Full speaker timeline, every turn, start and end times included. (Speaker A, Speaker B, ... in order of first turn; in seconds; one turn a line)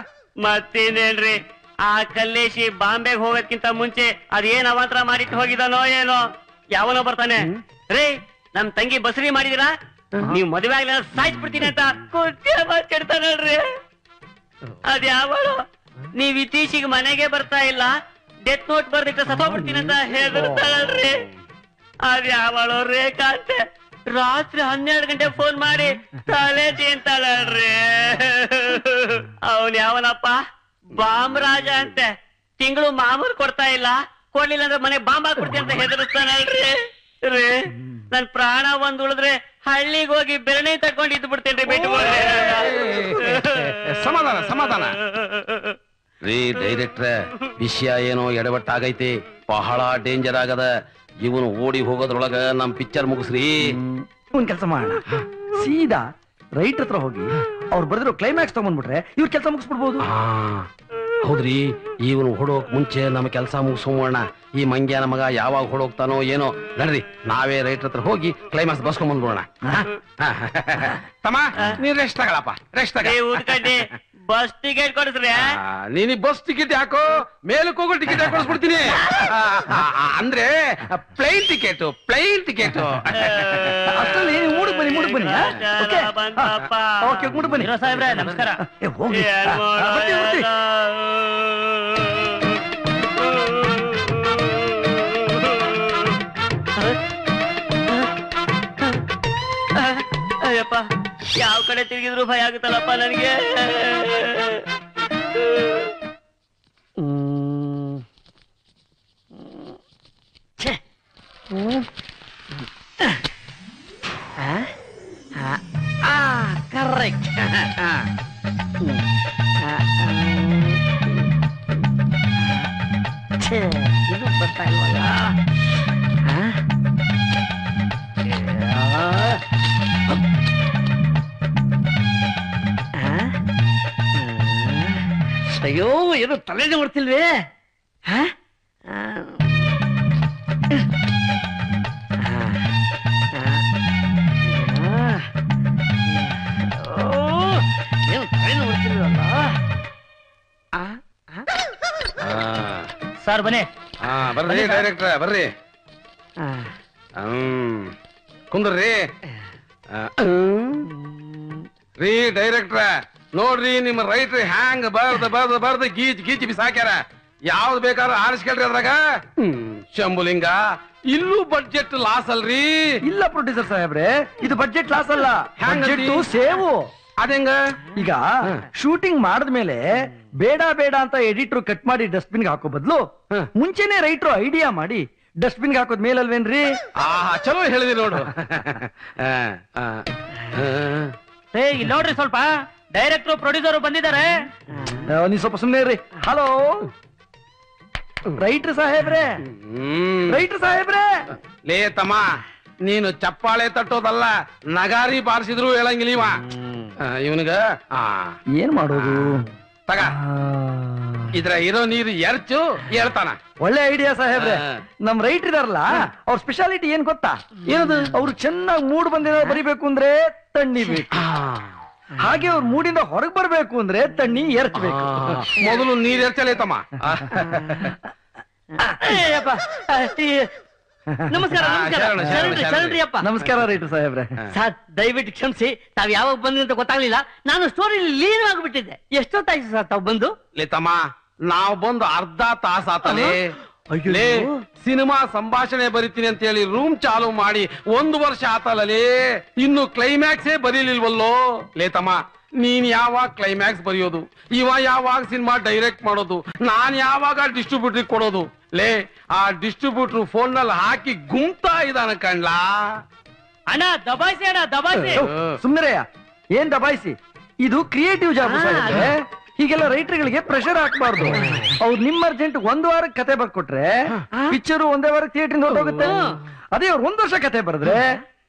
Speaker A: 0.4-6.2
Speaker A: 6.7-13.6
Speaker A: 14.9-15.6
Speaker A: 16.1-21.2
Speaker A: 22.1-30.4
Speaker A: 30.9-43.4
Speaker B: 41.7-44.9
Speaker B: 46.2-50.7
Speaker B: 51.2-53.7
Speaker C: 54.3-55.0
Speaker C: 55.6-56.0
Speaker C: 56.6-60.0
Speaker B: 60.1-60.6
Speaker B: 61.2-69.5
Speaker B: 70.2-73.8
Speaker A: 73.0-75.5
Speaker B: 75.4-83.6
Speaker A: 83.1-87.4
Speaker C: 83.9-90.5
Speaker D: 87.6-88.6
Speaker A: 89.1-92.5
Speaker A: 93.2-96.2
Speaker A: 99.8-100.8
Speaker A: 101.4-104.6
Speaker A: 105.4-105.9
Speaker E: 128.7-129.2
Speaker E: 134.4-134.8
Speaker E: 135.6-137.3
Speaker E: 148.2-149.3
Speaker B: 152.2-152.9
Speaker D: 153.2-153.7
Speaker B: 154.0-155.5
Speaker B: 157.2-157.9
Speaker B: 158.5-159.1
Speaker B: 159.9-160.8
Speaker B: 162.0-167.0
Speaker B: 167.5-170.6
Speaker B: 171.1-172.8
Speaker C: 173.0-176.9
Speaker B: 175.6-176.2
Speaker B: 177.2-177.6
Speaker C: 177.9-179.8
Speaker C: 180.4-186.7
Speaker B: 187.0-191.1
Speaker D: 191.5-194.3
Speaker C: 195.0-196.9
Speaker C: 198.4-199.3
Speaker B: 199.6-200.4
Speaker C: 200.3-201.1
Speaker B: 201.7-202.2
Speaker B: 202.9-206.4
Speaker B: 207.1-208.3
Speaker C: 208.6-209.4
Speaker B: 209.9-210.1
Speaker C: 210.1-210.6
Speaker B: 211.3-213.4
Speaker C: 213.6-217.4
Speaker B: 217.7-218.1
Speaker C: 218.1-221.2
Speaker B: 221.2-221.6
Speaker C: 222.2-225.4
Speaker B: 224.8-227.9
Speaker E: 228.8-230.5
Speaker E: 231.3-233.2
Speaker B: 231.6-233.0
Speaker C: 233.2-234.3
Speaker E: 234.5-240.3
Speaker B: 240.6-243.5
Speaker B: 244.1-262.7
Speaker D: 263.7-265.2
Speaker B: 265.1-265.5
Speaker C: 265.2-273.9
Speaker C: 274.5-278.2
Speaker B: 275.8-276.1